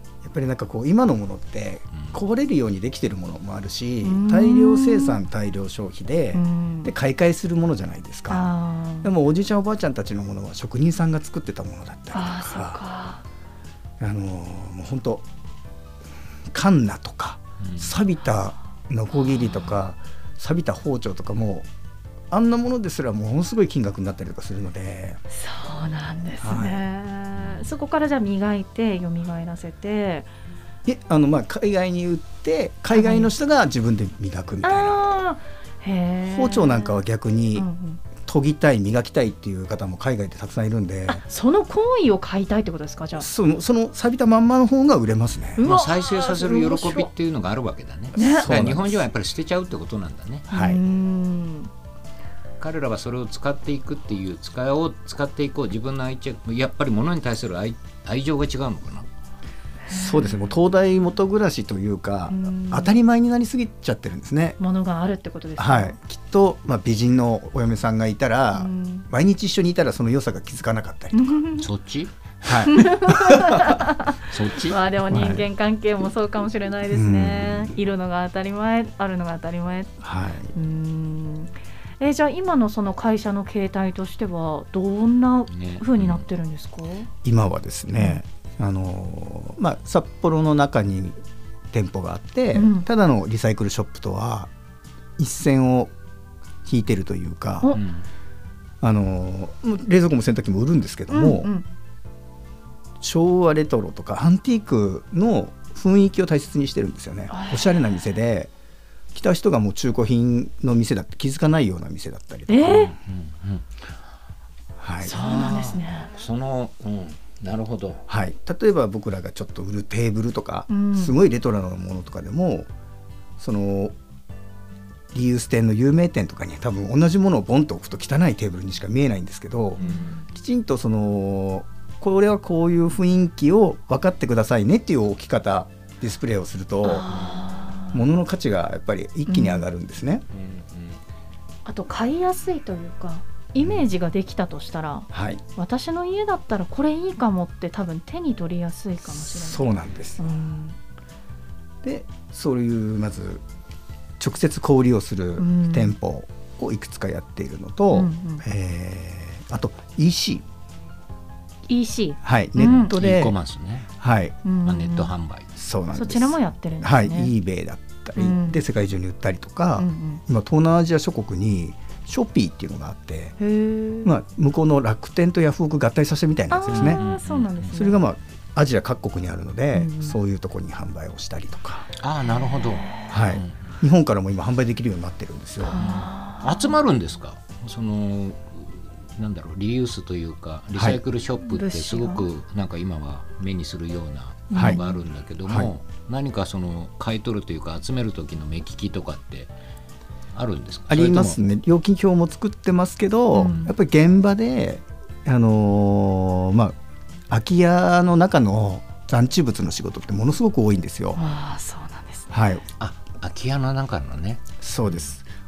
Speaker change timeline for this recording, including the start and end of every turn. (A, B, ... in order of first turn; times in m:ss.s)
0:00.2-0:08.5 A
0:04.0-0:05.2 B
0:06.3-0:06.9 B
0:08.3-0:09.1 B
0:09.0-0:12.8 A
0:12.1-0:13.2 B
0:14.0-0:15.2 A
0:16.5-0:21.7 A
0:17.6-0:17.9 C
0:22.3-0:25.2 A
0:25.3-0:30.3 B
0:26.4-0:26.8 A
0:27.4-0:27.7 C
0:30.8-0:35.0 A
0:32.9-0:33.3 B
0:34.6-0:37.0 B
0:36.2-0:37.7 A
0:37.6-0:38.0 B
0:38.2-0:41.2 A
0:41.1-0:43.3 B
0:43.2-0:45.6 A
0:45.6-0:47.1 B
0:45.6-0:50.5 C
0:48.2-0:48.5 B
0:48.2-0:49.0 A
0:50.5-0:50.8 A
0:50.5-0:51.7 B
0:52.6-0:59.1 C
0:59.9-1:00.5 B
0:59.9-1:04.6 A
1:02.3-1:03.0 B
1:04.6-1:06.0 B
1:05.6-1:11.4 A
1:08.6-1:09.1 B
1:11.1-1:11.7 B
1:11.6-1:12.1 C
1:12.4-1:13.8 A
1:12.6-1:20.0 B
1:14.3-1:14.8 C
1:15.1-1:15.5 A
1:16.9-1:17.8 A
1:20.0-1:20.5 A
1:20.5-1:27.1 B
1:25.5-1:26.3 C
1:27.2-1:31.2 A
1:28.0-1:28.2 B
1:31.7-1:34.5 A
1:32.5-1:32.9 B
1:35.2-1:35.9 A
1:36.6-1:37.8 A
1:37.7-1:38.0 C
1:38.8-1:41.5 A
1:41.1-1:41.7 B
1:43.0-1:48.5 A
1:47.3-1:47.8 B
1:49.1-1:52.9 A
1:52.5-1:52.9 B
1:52.6-1:53.6 C
1:54.8-1:55.5 A
1:55.0-1:56.1 B
1:55.3-1:58.0 C
1:58.1-2:02.7 A
2:00.7-2:01.2 B
2:03.4-2:04.0 A
2:05.1-2:17.1 A
2:09.8-2:10.1 C
2:09.8-2:10.2 B
2:16.8-2:18.0 B
2:17.1-2:17.4 C
2:17.9-2:20.2 A
2:19.3-2:19.6 B
2:20.3-2:21.0 C
2:21.6-2:30.8 B
2:25.1-2:25.4 A
2:29.1-2:30.2 A
2:31.8-2:33.4 A
2:34.2-2:40.4 A
2:35.4-2:36.0 B
2:37.9-2:38.4 B
2:41.7-2:42.9 B
2:42.2-2:43.4 A
2:42.6-2:43.9 C
2:44.0-2:44.4 A
2:44.4-2:45.1 B
2:44.6-2:45.5 C
2:45.6-2:53.4 A
2:46.0-2:47.3 B
2:48.2-2:48.6 B
2:49.8-2:50.2 B
2:53.4-2:54.2 B
2:54.0-2:57.0 A
2:56.5-2:58.0 B
2:56.7-2:57.6 C
2:57.7-3:01.9 A
2:59.7-3:00.2 B
3:02.0-3:03.6 C
3:02.3-3:03.1 B
3:03.1-3:05.8 A
3:05.6-3:06.7 B
3:05.8-3:19.5 C
3:10.8-3:11.0 A
3:11.5-3:12.2 B
3:14.5-3:14.8 B
3:14.6-3:14.8 A
3:20.3-3:21.4 C
3:20.9-3:26.8 A
3:23.3-3:23.7 B
3:27.3-3:31.2 A
3:31.2-3:32.3 B
3:32.3-3:32.6 A
3:32.8-3:34.5 C
3:34.6-3:35.2 A